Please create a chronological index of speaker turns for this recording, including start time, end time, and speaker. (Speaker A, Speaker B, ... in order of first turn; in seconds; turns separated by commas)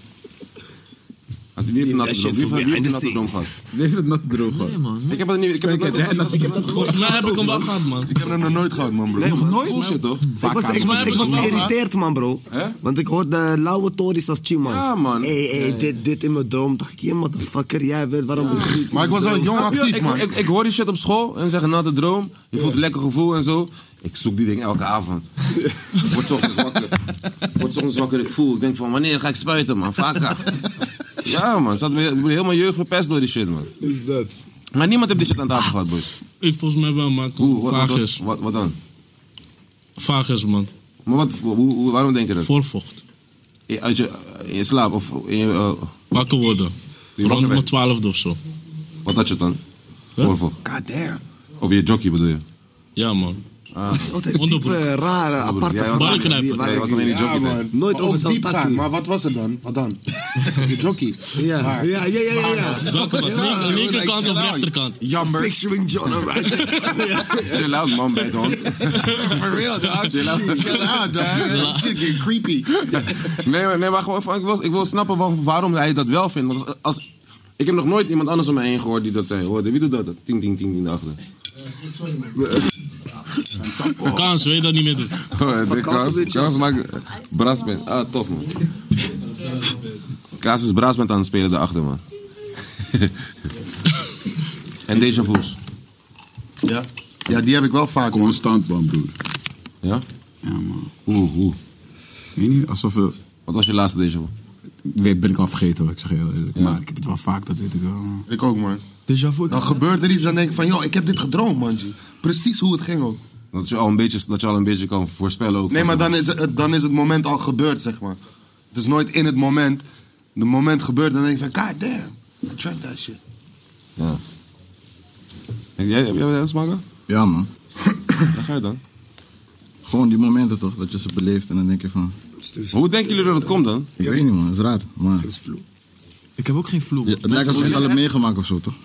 Speaker A: 1.6-3.5, Speaker B: 1.8-3.5, Speaker C: 3.7-4.8, Speaker D: 4.4-5.3, Speaker A: 5.1-7.0, Speaker C: 5.5-7.7, Speaker E: 6.7-8.1, Speaker F: 8.0-9.3, Speaker B: 9.2-9.8, Speaker C: 9.2-11.7, Speaker A: 9.5-10.3, Speaker B: 10.4-19.4, Speaker E: 10.8-11.7, Speaker A: 12.5-12.8, Speaker A: 14.7-15.3, Speaker A: 18.4-25.3, Speaker F: 18.9-20.3, Speaker B: 25.6-26.0, Speaker A: 26.0-30.6, Speaker A: 31.2-33.7, Speaker B: 33.8-34.4, Speaker A: 34.7-36.1, Speaker E: 36.4-38.2, Speaker A: 37.4-38.8, Speaker E: 40.0-40.7, Speaker A: 41.1-42.5, Speaker E: 42.5-43.0, Speaker A: 43.7-46.0, Speaker E: 46.1-48.4, Speaker A: 47.2-47.7, Speaker A: 49.0-49.6, Speaker A: 50.2-50.6, Speaker F: 50.6-51.2, Speaker A: 51.6-52.4, Speaker E: 53.0-53.4, Speaker A: 53.7-54.2, Speaker B: 53.9-57.2, Speaker E: 54.4-54.9, Speaker A: 55.4-57.6, Speaker E: 55.9-56.9, Speaker F: 57.0-65.5, Speaker B: 57.7-58.9, Speaker B: 61.3-63.9, Speaker E: 62.5-65.0, Speaker B: 65.2-68.5, Speaker E: 66.6-67.1, Speaker A: 67.4-69.2, Speaker F: 68.8-72.9, Speaker A: 70.0-71.6, Speaker E: 71.3-72.1, Speaker A: 72.9-77.0, Speaker A: 77.6-81.2, Speaker B: 82.3-82.7, Speaker C: 83.5-84.3, Speaker E: 84.0-85.1, Speaker A: 85.3-88.5, Speaker B: 85.4-86.7, Speaker A: 90.4-92.0, Speaker A: 92.8-93.1, Speaker A: 94.9-95.6, Speaker F: 96.6-98.4, Speaker C: 98.1-99.1, Speaker C: 100.4-100.9, Speaker A: 101.1-101.6, Speaker C: 102.4-103.1, Speaker A: 103.5-104.3, Speaker C: 104.9-108.2, Speaker A: 106.5-106.8, Speaker F: 108.3-108.8, Speaker D: 109.1-109.8, Speaker F: 109.5-113.2, Speaker A: 113.5-116.1, Speaker F: 115.7-118.2, Speaker F: 118.7-119.8, Speaker F: 120.4-123.2, Speaker A: 125.8-126.8, Speaker G: 127.1-127.5, Speaker A: 128.3-128.8, Speaker G: 129.8-132.1, Speaker B: 132.4-133.5, Speaker A: 132.7-133.9, Speaker G: 134.0-135.3, Speaker B: 134.0-134.3, Speaker B: 135.2-135.6, Speaker D: 136.4-137.9, Speaker G: 137.1-138.8, Speaker A: 137.3-138.0